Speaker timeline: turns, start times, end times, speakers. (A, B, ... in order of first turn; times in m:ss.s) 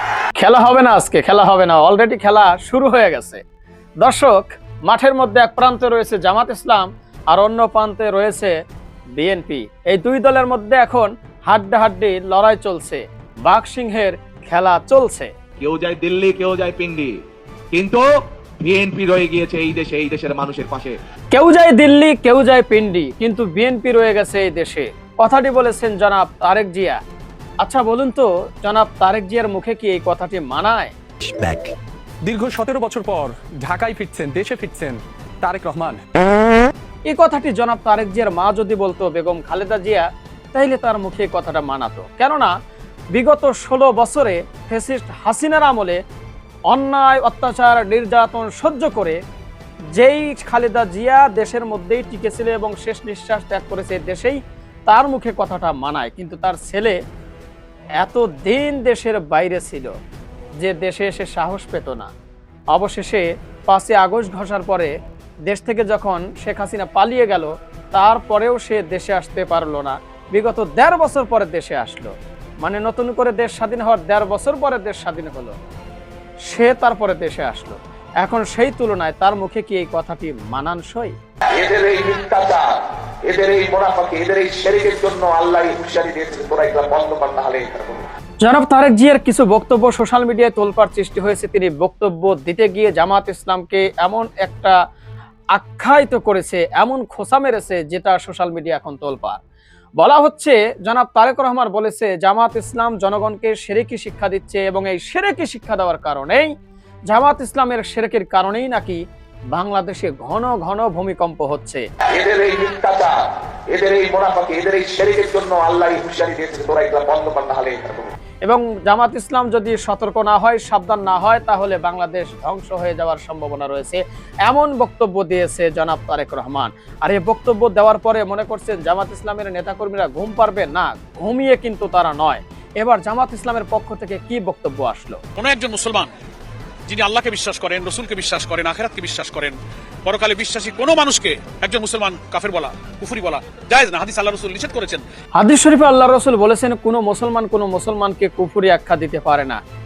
0:00.4-0:03.4 A
0:04.0-0:08.6 A
0:09.2-0:15.3 A
0:15.6-0:17.2 B
0:17.7-0:18.0 B
0:18.6-0:21.0 B
0:21.3-0:27.0 A
0:27.6-0:30.9 A
0:32.2-0:36.0 C
0:37.1-0:42.5 A
0:43.1-0:46.0 A
0:46.7-0:49.2 A
0:49.9-0:57.0 A
0:58.0-0:59.9 A
1:00.6-1:02.1 A
1:02.7-1:04.9 A
1:05.5-1:15.6 A
1:16.5-1:21.2 A
1:21.5-1:22.7 D
1:23.2-1:28.1 D
1:28.4-1:34.7 A
1:35.5-1:39.4 A
1:40.0-1:46.5 A
1:47.1-1:49.0 A
1:49.5-1:51.8 A
1:52.1-1:53.2 D
1:53.7-1:58.1 D
1:58.4-2:15.2 A
2:15.4-2:16.1 E
2:16.9-2:25.0 E
2:25.4-2:29.6 A